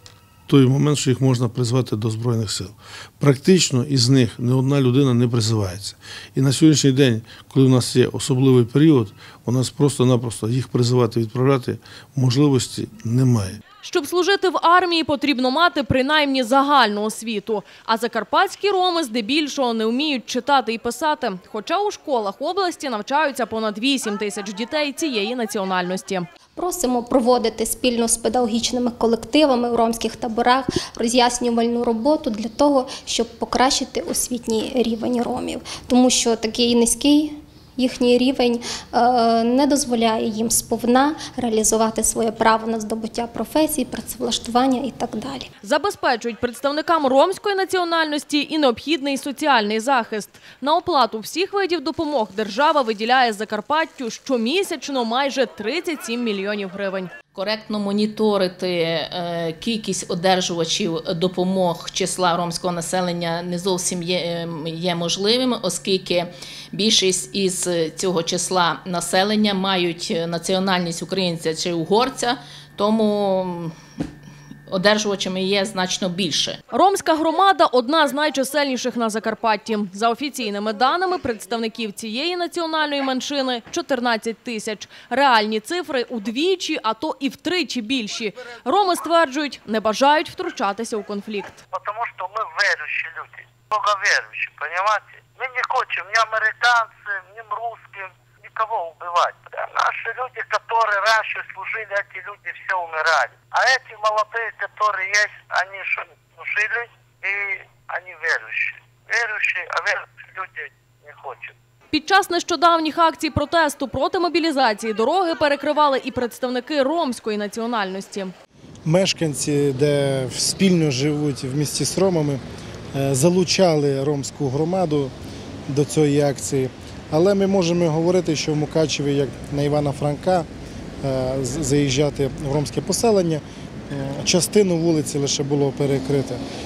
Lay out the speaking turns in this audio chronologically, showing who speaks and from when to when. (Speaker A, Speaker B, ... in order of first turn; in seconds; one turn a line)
Speaker A: 0.5-13.6
Speaker B: 13.8-26.2
Speaker C: 26.6-45.5
Speaker B: 45.6-57.1
Speaker D: 57.3-73.7
Speaker D: 74.7-76.6
Speaker B: 76.7-91.6
Speaker E: 91.7-111.5
Speaker B: 111.9-118.3
Speaker F: 118.8-122.4
Speaker F: 122.9-125.1
Speaker F: 125.7-130.5
Speaker F: 131.0-136.4